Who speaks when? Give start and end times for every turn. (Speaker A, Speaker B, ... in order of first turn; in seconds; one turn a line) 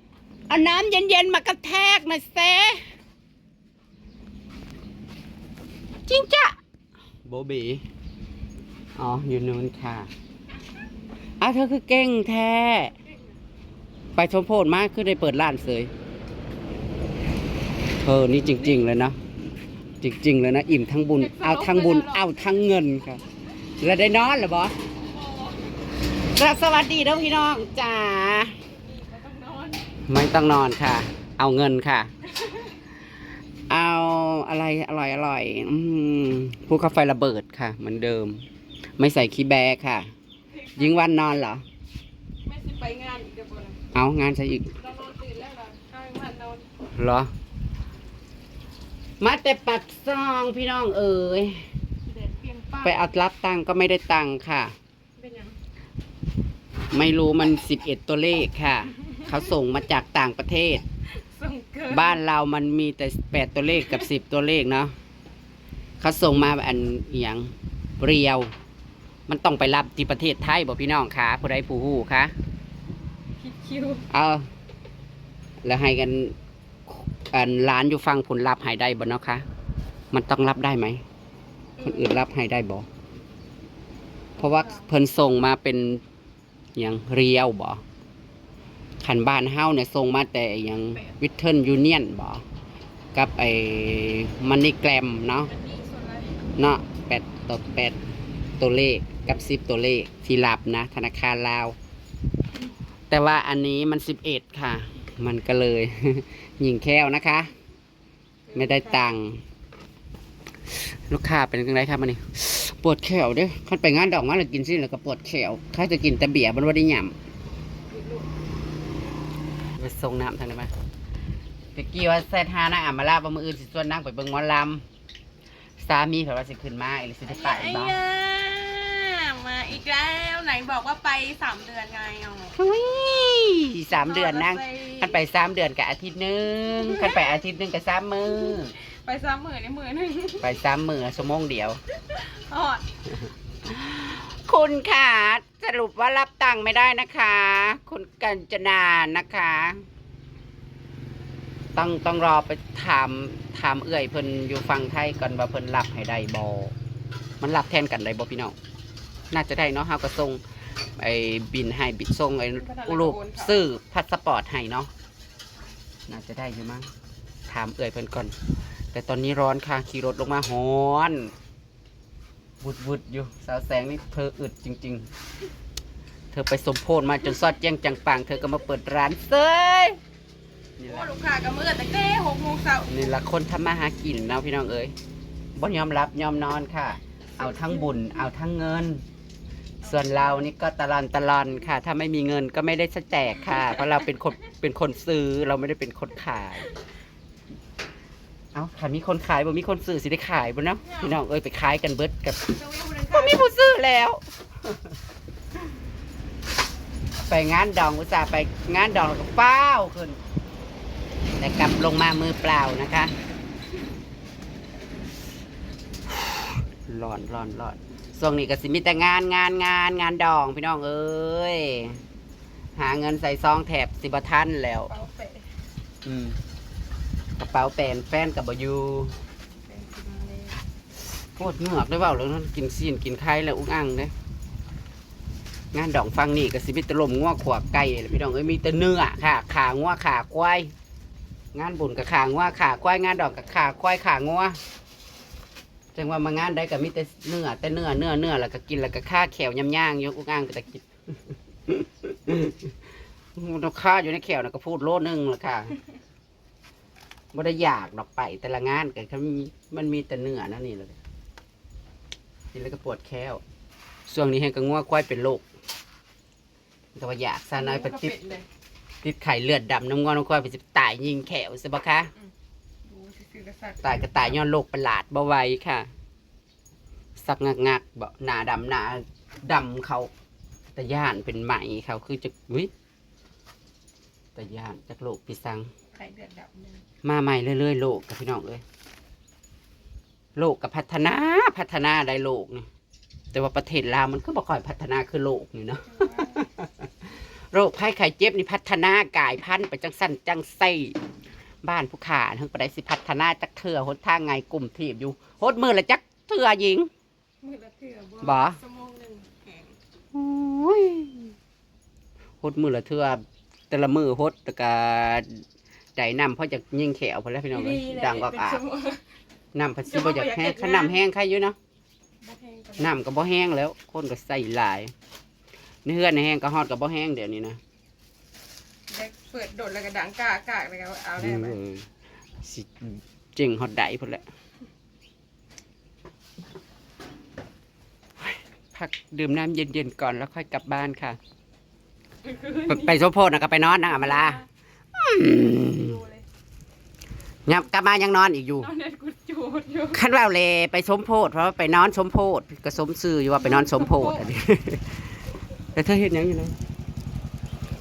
Speaker A: 0.5-2.8
Speaker A: 6.1-6.5
Speaker A: 7.2-7.8
Speaker A: 8.9-10.1
Speaker A: 11.4-12.9
Speaker A: 14.2-15.9
Speaker A: 18.0-19.2
Speaker A: 20.0-23.2
Speaker B: 21.2-22.2
Speaker A: 23.8-24.7
Speaker B: 25.2-25.5
Speaker A: 26.2-28.5
Speaker B: 28.8-29.8
Speaker A: 30.1-32.1
Speaker A: 33.7-38.4
Speaker A: 39.0-40.1
Speaker B: 40.6-40.9
Speaker A: 40.8-41.6
Speaker B: 42.5-43.8
Speaker A: 43.9-44.7
Speaker B: 44.8-46.6
Speaker A: 46.9-47.3
Speaker A: 49.2-51.6
Speaker B: 52.2-53.1
Speaker A: 52.8-54.7
Speaker B: 55.2-55.5
Speaker A: 56.9-60.8
Speaker B: 61.3-62.2
Speaker A: 61.8-64.9
Speaker A: 66.0-68.5
Speaker A: 69.3-72.3
Speaker B: 73.4-74.0
Speaker A: 74.1-74.5
Speaker A: 75.6-76.3
Speaker A: 76.9-79.4
Speaker A: 80.1-81.0
Speaker B: 81.8-82.2
Speaker A: 81.8-82.8
Speaker B: 84.4-84.9
Speaker A: 84.4-86.0
Speaker A: 86.8-87.8
Speaker A: 89.0-92.4
Speaker A: 93.1-95.5
Speaker B: 95.5-96.3
Speaker A: 96.6-98.0
Speaker A: 98.6-101.7
Speaker A: 103.1-107.5
Speaker B: 108.5-109.0
Speaker A: 108.5-109.4
Speaker A: 110.7-117.1
Speaker B: 117.9-118.3
Speaker A: 119.8-120.7
Speaker A: 121.7-124.8
Speaker A: 125.8-128.0
Speaker B: 127.2-132.5
Speaker A: 132.6-138.7
Speaker B: 133.9-135.2
Speaker B: 136.7-137.2
Speaker B: 139.0-140.5
Speaker A: 140.4-141.8
Speaker B: 142.1-142.8
Speaker A: 143.7-149.8
Speaker A: 151.7-156.7
Speaker A: 157.4-158.5
Speaker A: 159.3-160.4
Speaker A: 161.0-164.9
Speaker B: 162.6-163.6
Speaker A: 166.1-166.9
Speaker A: 167.5-168.3
Speaker A: 168.9-171.3
Speaker A: 172.6-175.1
Speaker A: 176.3-180.0
Speaker A: 180.8-181.1
Speaker B: 180.8-182.9
Speaker A: 182.9-184.9
Speaker A: 185.6-189.0
Speaker B: 187.4-187.8
Speaker B: 189.8-190.5
Speaker A: 189.8-196.7
Speaker A: 198.5-202.5
Speaker B: 200.8-201.1
Speaker B: 202.5-203.5
Speaker A: 203.1-204.7
Speaker A: 207.2-210.2
Speaker A: 211.4-213.1
Speaker A: 216.8-222.0
Speaker A: 222.8-224.9
Speaker B: 224.9-225.4
Speaker A: 226.0-226.3
Speaker A: 227.4-229.1
Speaker B: 229.7-230.6
Speaker A: 231.3-234.1
Speaker A: 235.7-240.7
Speaker A: 241.5-244.6
Speaker A: 245.9-250.9
Speaker A: 251.7-252.6
Speaker A: 253.3-255.8
Speaker A: 257.3-261.0
Speaker A: 262.5-263.4
Speaker A: 264.1-265.4
Speaker A: 266.9-268.1
Speaker B: 267.5-268.4
Speaker A: 269.0-272.1
Speaker B: 272.9-274.4
Speaker A: 273.8-275.9
Speaker A: 277.2-280.1
Speaker A: 280.7-282.7
Speaker A: 284.3-285.7
Speaker B: 285.9-286.8
Speaker A: 287.0-288.6
Speaker A: 290.4-292.6
Speaker A: 293.3-300.9
Speaker B: 295.9-296.4
Speaker A: 301.6-306.9
Speaker B: 307.4-309.7
Speaker A: 308.2-308.6
Speaker A: 310.1-311.3
Speaker A: 312.4-315.4
Speaker A: 315.9-318.6
Speaker B: 317.5-319.0
Speaker A: 319.5-321.6
Speaker B: 319.9-320.9
Speaker B: 322.2-322.9
Speaker A: 322.8-324.9
Speaker A: 325.8-327.6
Speaker B: 328.9-331.6
Speaker A: 331.2-331.9
Speaker A: 332.4-334.2
Speaker A: 338.2-341.2
Speaker B: 342.2-343.0
Speaker A: 342.7-344.4
Speaker B: 343.8-344.4
Speaker A: 344.9-346.0
Speaker B: 345.5-346.2
Speaker A: 347.4-348.7
Speaker B: 348.6-350.0
Speaker A: 349.9-354.9
Speaker B: 353.4-354.3
Speaker A: 355.7-356.5